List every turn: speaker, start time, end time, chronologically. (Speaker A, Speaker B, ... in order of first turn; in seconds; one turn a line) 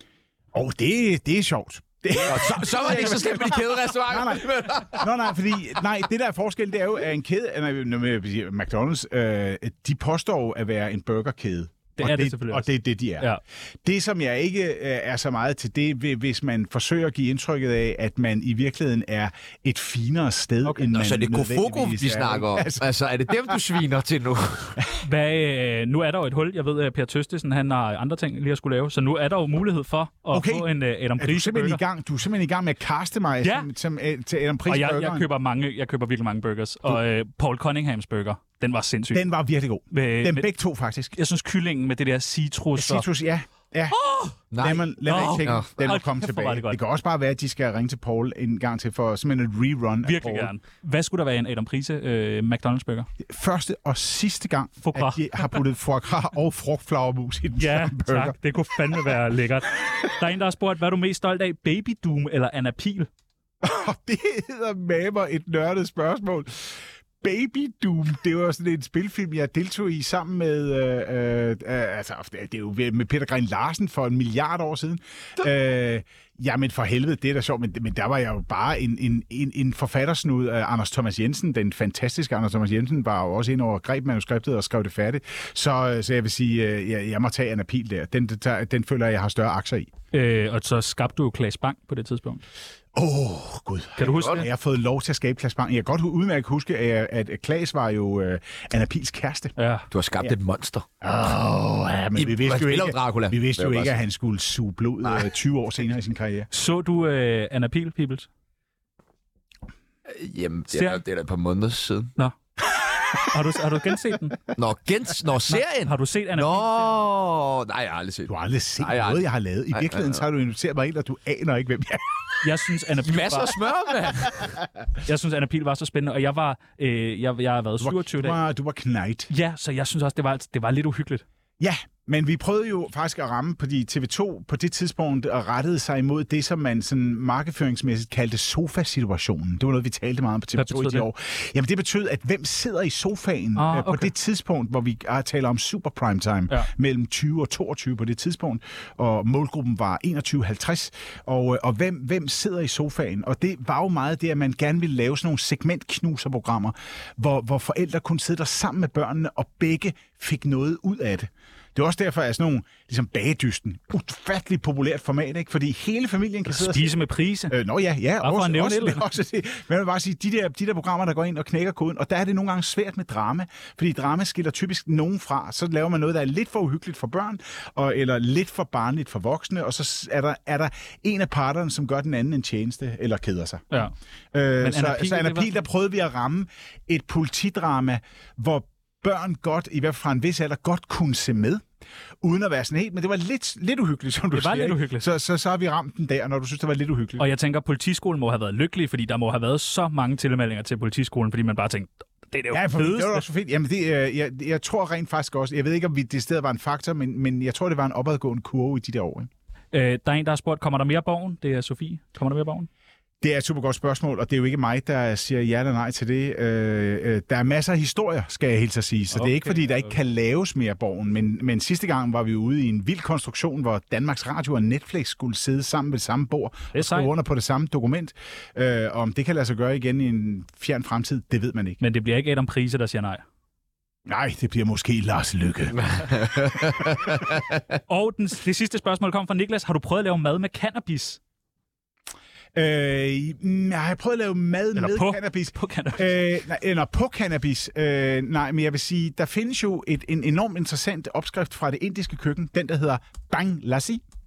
Speaker A: 0.5-22.9
Speaker B: 2.2-5.1
Speaker C: 12.0-13.4
Speaker C: 20.6-20.9
Speaker B: 20.9-24.8
Speaker C: 25.0-31.8
Speaker A: 30.3-35.3
Speaker C: 33.4-33.7
Speaker C: 34.7-39.2
Speaker A: 39.1-41.1
Speaker C: 39.9-40.5
Speaker C: 41.1-43.1
Speaker A: 42.8-44.0
Speaker B: 44.5-45.8
Speaker A: 44.6-50.5
Speaker C: 45.0-46.8
Speaker C: 50.0-53.1
Speaker A: 53.2-58.4
Speaker C: 54.8-55.6
Speaker C: 57.6-63.1
Speaker A: 63.6-89.9
Speaker C: 90.1-92.4
Speaker A: 92.9-99.5
Speaker C: 94.0-94.5
Speaker B: 94.0-94.4
Speaker C: 99.6-99.8
Speaker B: 99.9-100.8
Speaker A: 101.0-106.5
Speaker B: 102.2-104.0
Speaker B: 105.0-105.3
Speaker C: 106.5-108.3
Speaker B: 110.0-112.1
Speaker C: 110.7-111.0
Speaker C: 113.2-114.4
Speaker B: 114.5-120.2
Speaker C: 115.5-117.0
Speaker A: 118.3-122.4
Speaker C: 122.4-123.5
Speaker B: 123.0-124.6
Speaker C: 125.0-128.4
Speaker A: 127.8-129.3
Speaker C: 129.3-131.2
Speaker A: 131.6-191.7
Speaker C: 140.6-141.1
Speaker C: 143.6-144.1
Speaker C: 166.4-167.6
Speaker C: 168.2-169.1
Speaker C: 184.6-185.6
Speaker A: 192.2-197.3
Speaker C: 194.3-195.1
Speaker C: 197.2-203.2
Speaker A: 202.5-209.3
Speaker C: 209.7-212.7
Speaker A: 213.2-231.8
Speaker C: 219.1-219.9
Speaker C: 226.7-227.1
Speaker C: 231.8-233.2
Speaker A: 234.1-237.0
Speaker B: 235.9-237.4
Speaker C: 237.9-241.2
Speaker A: 242.5-254.0
Speaker C: 244.7-246.2